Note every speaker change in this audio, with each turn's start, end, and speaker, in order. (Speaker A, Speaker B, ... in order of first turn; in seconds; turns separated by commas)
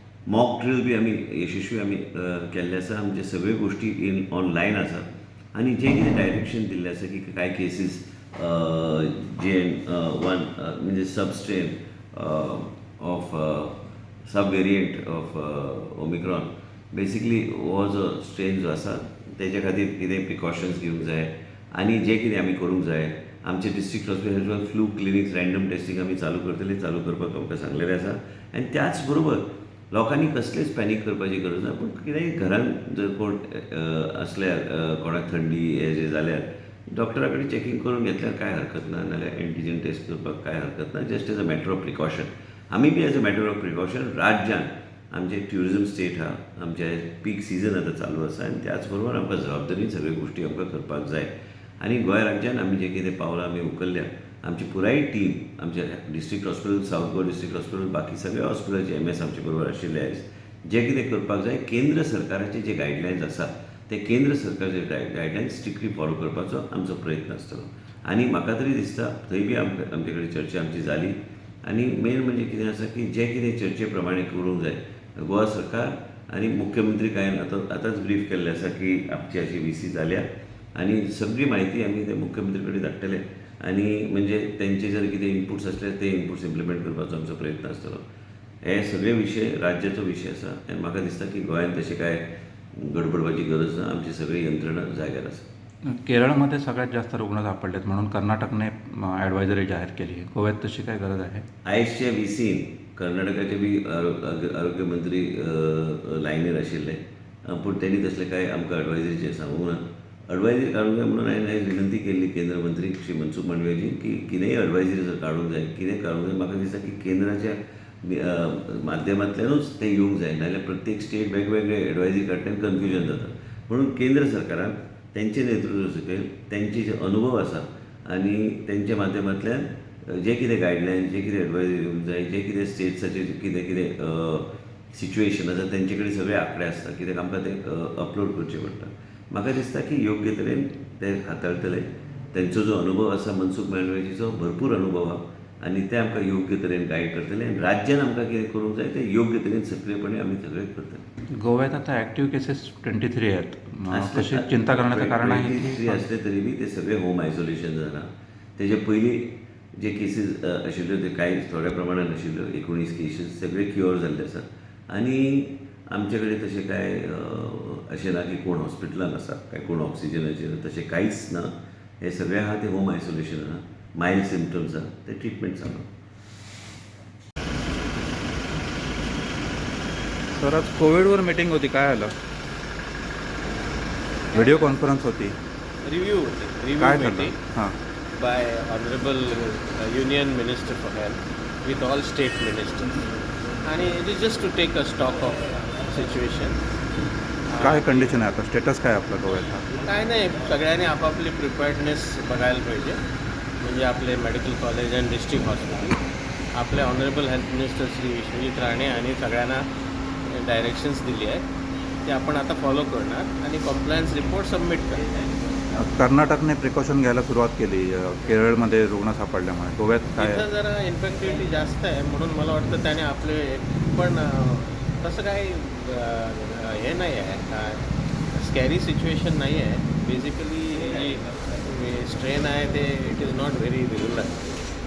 Speaker A: 0.3-88.0, Speaker A: 88.6-92.2, Speaker A: 92.7-95.4, Speaker B: 95.8-101.4, Speaker A: 101.6-151.0, Speaker B: 151.4-156.0, Speaker A: 153.9-175.9, Speaker B: 180.3-182.1, Speaker B: 184.3-185.3, Speaker C: 184.3-184.7, Speaker C: 185.8-187.3, Speaker B: 186.8-187.7, Speaker C: 188.1-193.0, Speaker C: 193.6-196.6, Speaker C: 197.5-197.9, Speaker B: 197.6-199.7, Speaker C: 199.8-203.0, Speaker C: 203.6-206.0, Speaker C: 206.5-209.6, Speaker C: 210.2-211.4, Speaker C: 212.0-215.1, Speaker B: 215.7-220.4, Speaker C: 220.2-234.4